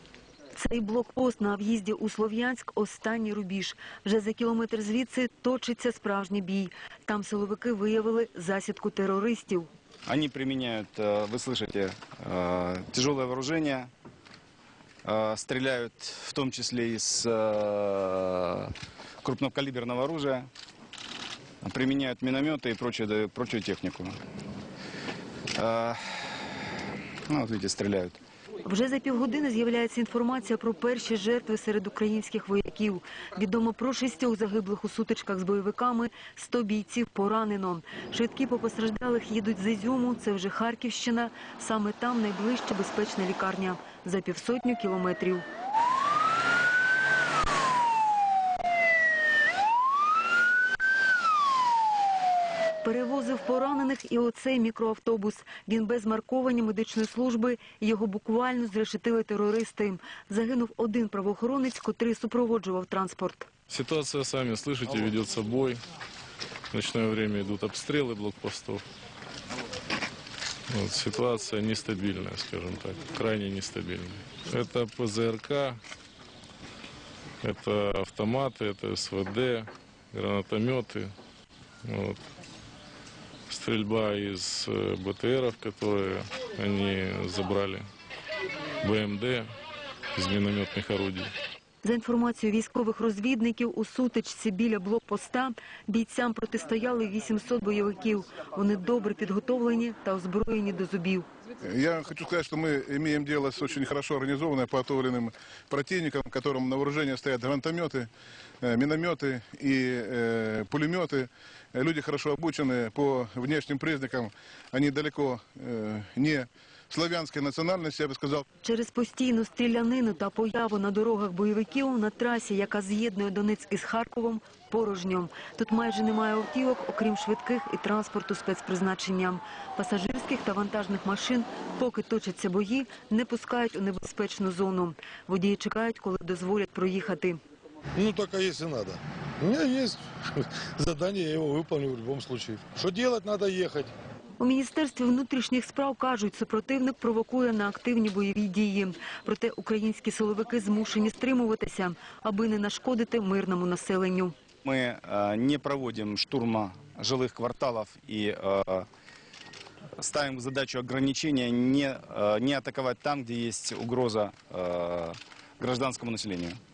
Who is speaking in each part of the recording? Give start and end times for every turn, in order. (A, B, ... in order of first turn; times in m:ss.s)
0:00.5-0:09.7 A
0:10.0-0:13.9 B
0:15.0-0:20.5 B
0:21.6-0:24.2 B
0:25.5-0:26.2 B
0:27.3-0:28.2 B
0:28.6-0:45.4 A
0:52.8-1:03.5 A
1:03.7-1:05.8 C
1:06.7-1:08.8 C
1:10.7-1:15.8 C
1:17.4-1:21.1 C
1:21.8-1:22.2 C
1:23.5-1:27.8 C
1:28.8-1:29.4 C
1:30.1-1:31.3 C
1:31.8-1:41.3 A
1:41.6-1:48.1 D
1:48.6-1:58.4 D
1:58.6-2:17.4 A
2:17.9-2:23.9 E
2:24.4-2:34.3 A
2:34.6-2:38.8 B
2:40.0-2:46.6 B